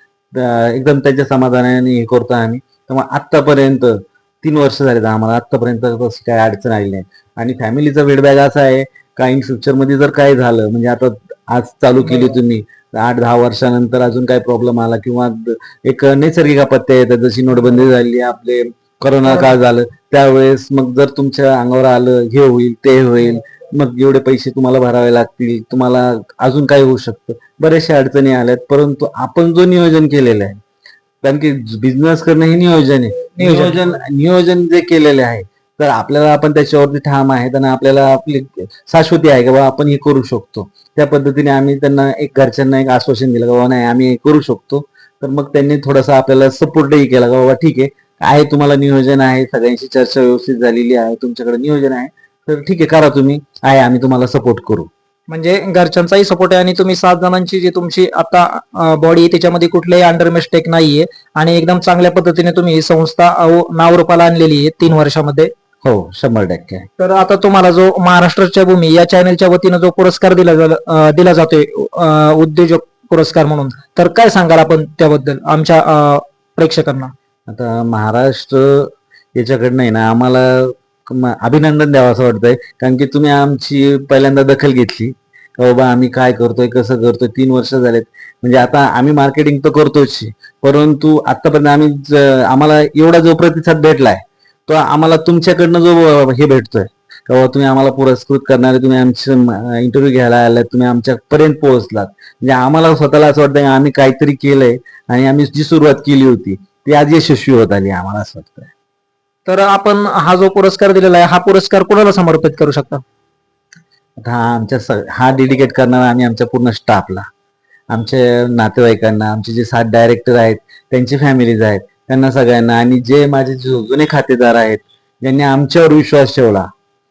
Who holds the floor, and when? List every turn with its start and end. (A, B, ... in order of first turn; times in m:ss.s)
0:00.3-0:30.6 A
0:12.0-0:12.4 B
0:19.3-0:19.6 B
0:31.2-0:54.9 A
0:33.3-0:34.0 B
0:55.3-1:05.5 B
1:05.8-1:06.9 A
1:07.0-1:17.1 B
1:17.5-1:48.7 A
1:49.5-1:53.0 B
1:54.2-1:57.3 A
1:57.9-2:06.7 A